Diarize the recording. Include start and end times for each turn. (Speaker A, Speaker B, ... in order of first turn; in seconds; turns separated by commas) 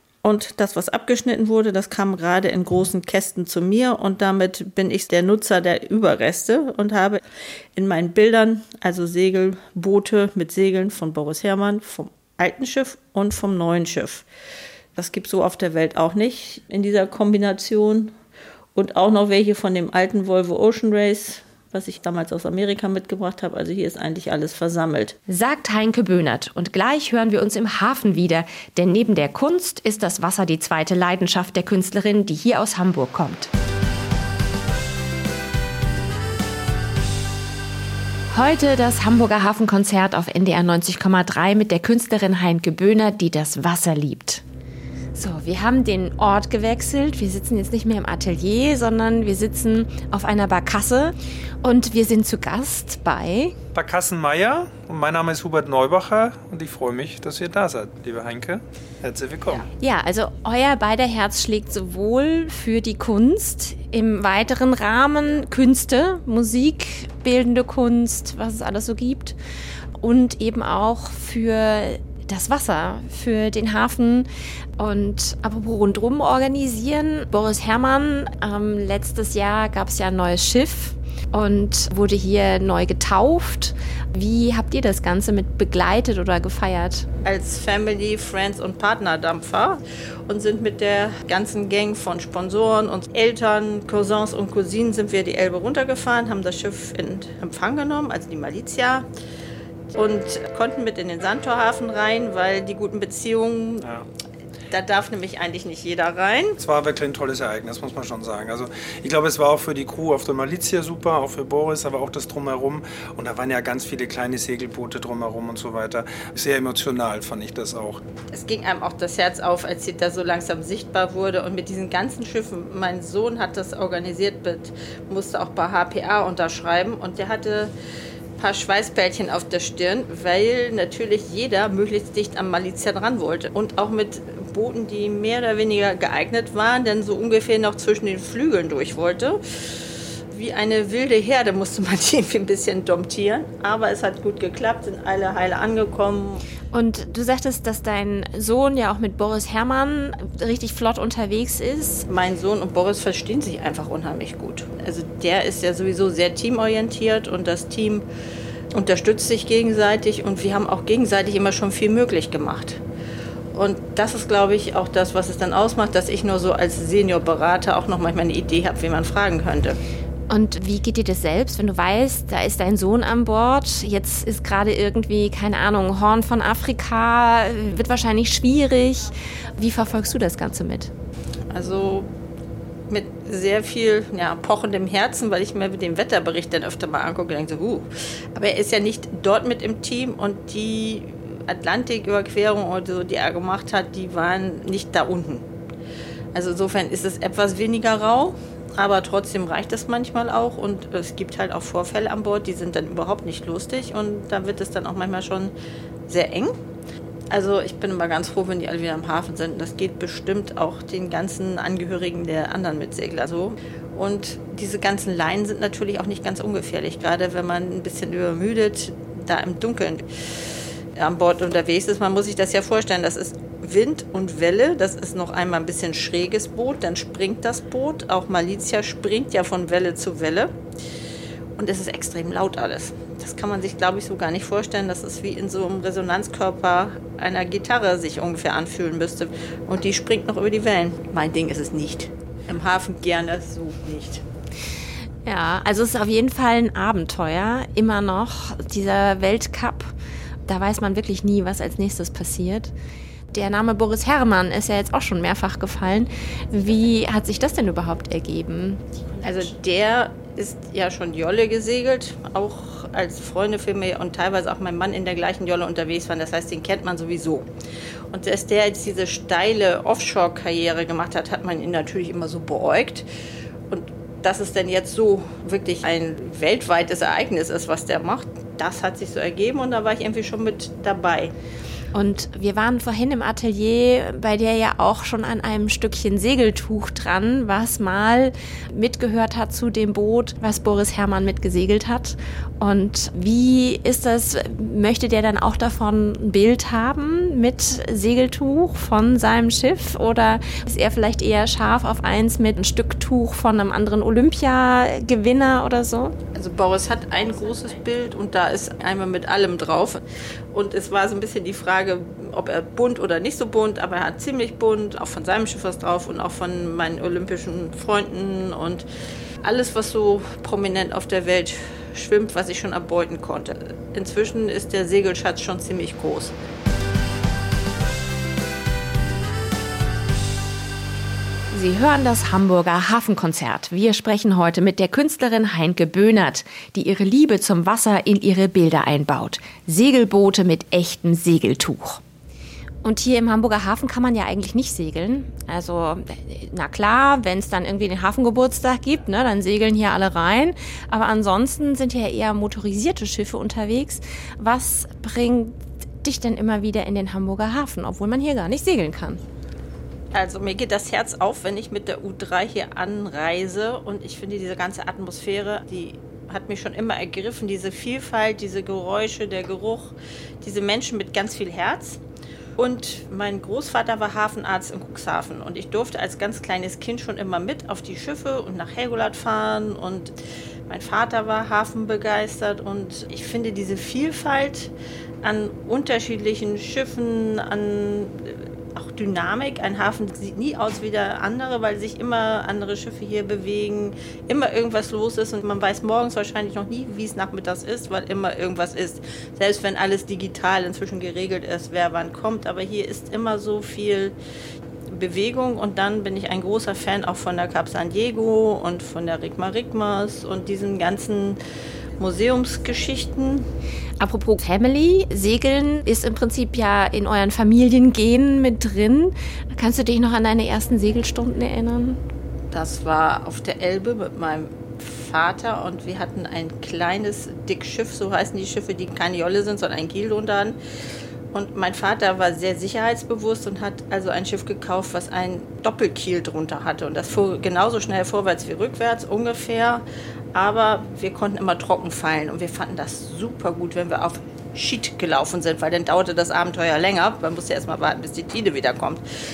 Speaker A: 0.2-7.2, Speaker A: 7.7-14.2, Speaker A: 14.9-18.1, Speaker A: 18.7-25.2, Speaker B: 25.3-33.5, Speaker B: 38.3-44.4, Speaker B: 45.1-53.5, Speaker C: 53.7-59.6, Speaker B: 59.6-69.4, Speaker B: 70.0-87.1, Speaker A: 87.2-99.1, Speaker A: 99.9-103.9, Speaker A: 104.7-106.6, Speaker C: 106.6-118.0, Speaker A: 118.3-127.7, Speaker A: 128.4-139.4, Speaker A: 140.3-146.4, Speaker B: 146.7-152.1, Speaker A: 152.1-158.1, Speaker A: 158.7-162.8, Speaker A: 163.5-169.8, Speaker B: 170.3-180.9, Speaker A: 181.5-182.1, Speaker A: 182.9-195.5, Speaker A: 196.3-205.5, Speaker A: 206.1-206.5, Speaker A: 207.3-220.0, Speaker A: 220.9-230.5, Speaker A: 231.6-244.2, Speaker B: 245.2-249.9, Speaker B: 250.4-252.7, Speaker B: 253.3-259.2, Speaker A: 259.2-267.5, Speaker A: 268.1-273.1, Speaker A: 273.7-281.3, Speaker B: 281.9-306.1, Speaker A: 306.3-318.9, Speaker A: 319.4-326.4, Speaker B: 331.5-342.0, Speaker B: 342.8-359.2, Speaker A: 360.1-372.0, Speaker A: 372.6-380.1, Speaker A: 380.7-384.7, Speaker A: 385.2-404.1, Speaker A: 404.9-411.4, Speaker A: 412.0-413.5, Speaker B: 414.0-422.0, Speaker A: 422.5-430.6, Speaker A: 431.3-449.0